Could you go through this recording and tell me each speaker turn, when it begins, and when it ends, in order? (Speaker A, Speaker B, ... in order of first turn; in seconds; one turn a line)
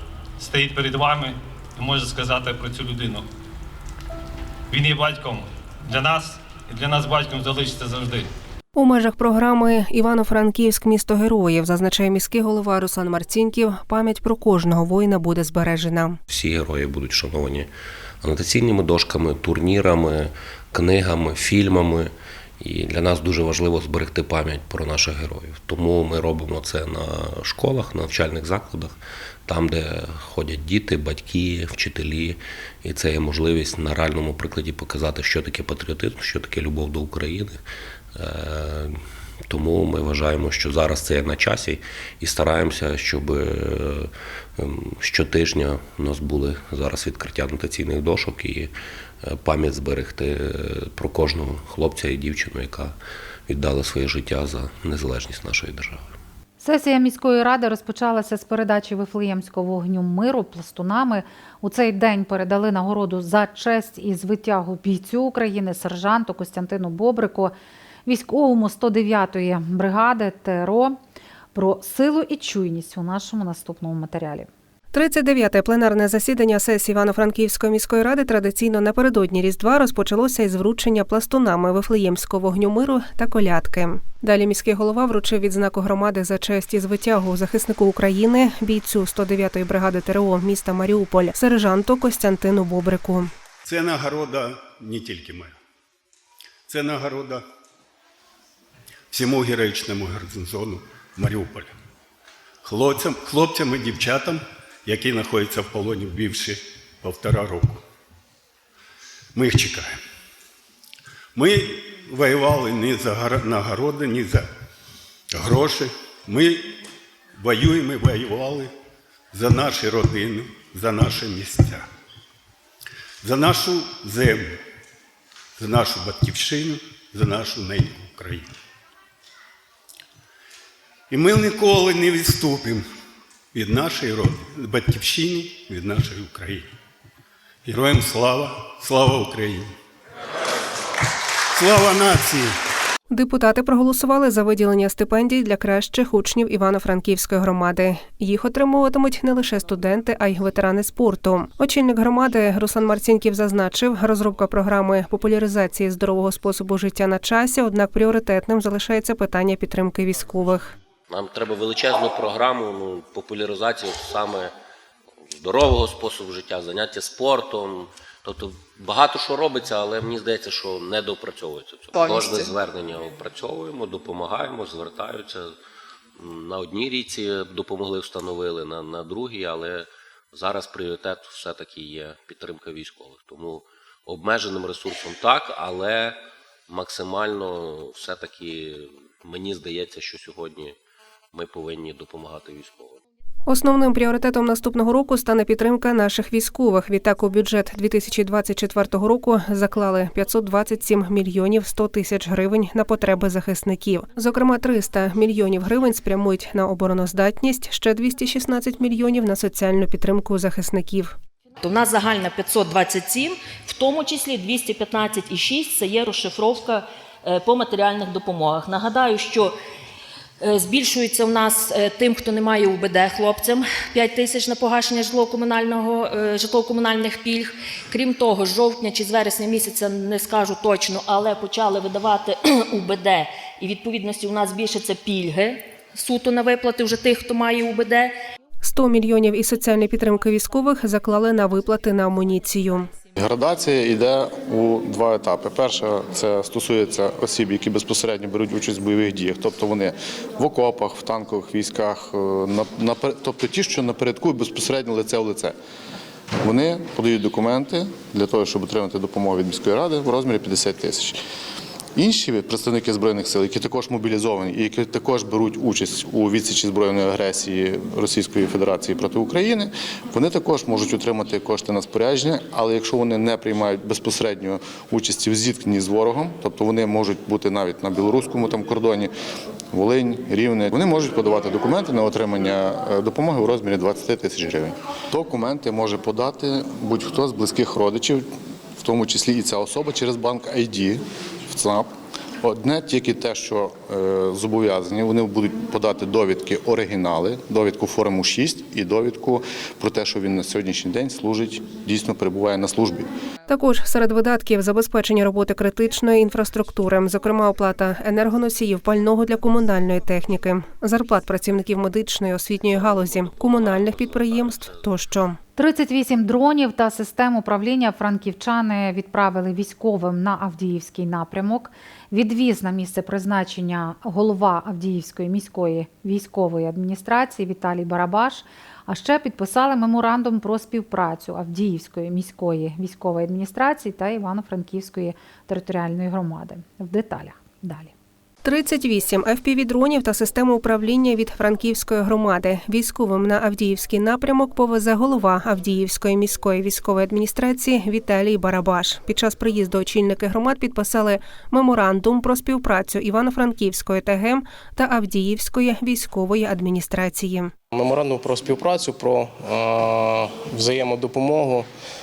Speaker A: 0.4-3.2
Speaker A: 4.7-8.3
Speaker B: 8.7-16.2
Speaker C: 16.3-17.7
Speaker C: 18.2-37.6
Speaker C: 38.1-38.9
Speaker C: 39.5-48.7
Speaker C: 49.2-52.9
Speaker C: 53.5-56.1
Speaker D: 56.6-67.5
Speaker D: 68.0-71.0
Speaker D: 71.5-74.5
Speaker B: 74.9-93.3
Speaker E: 93.6-95.5
Speaker E: 96.7-97.4
Speaker E: 99.1-101.7
Speaker E: 102.6-107.8
Speaker E: 109.3-110.0
Speaker E: 111.3-114.5
Speaker E: 115.3-116.7
Speaker E: 117.4-118.7
Speaker E: 119.3-121.8
Speaker E: 123.2-124.5
Speaker E: 125.6-128.5
Speaker E: 131.1-132.8
Speaker E: 133.5-136.7
Speaker E: 137.7-139.7
Speaker E: 141.5-142.5
Speaker B: 143.1-160.7
Speaker C: 161.1-164.5
Speaker C: 165.3-175.5
Speaker C: 176.2-186.2
Speaker C: 186.7-190.7
Speaker C: 191.3-193.0
Speaker B: 193.5-211.2
Speaker F: 211.6-219.5
Speaker F: 220.4-238.1
Speaker B: 238.6-242.9
Speaker G: 243.2-255.5
Speaker G: 256.4-261.2
Speaker G: 261.9-279.1
Speaker G: 279.7-288.2
Speaker G: 288.8-291.9
Speaker G: 292.4-303.0
Speaker B: 303.5-315.4
Speaker C: 313.3-314.7
Speaker D: 315.6-337.9
Speaker B: 338.4-357.5
Speaker H: 357.7-361.7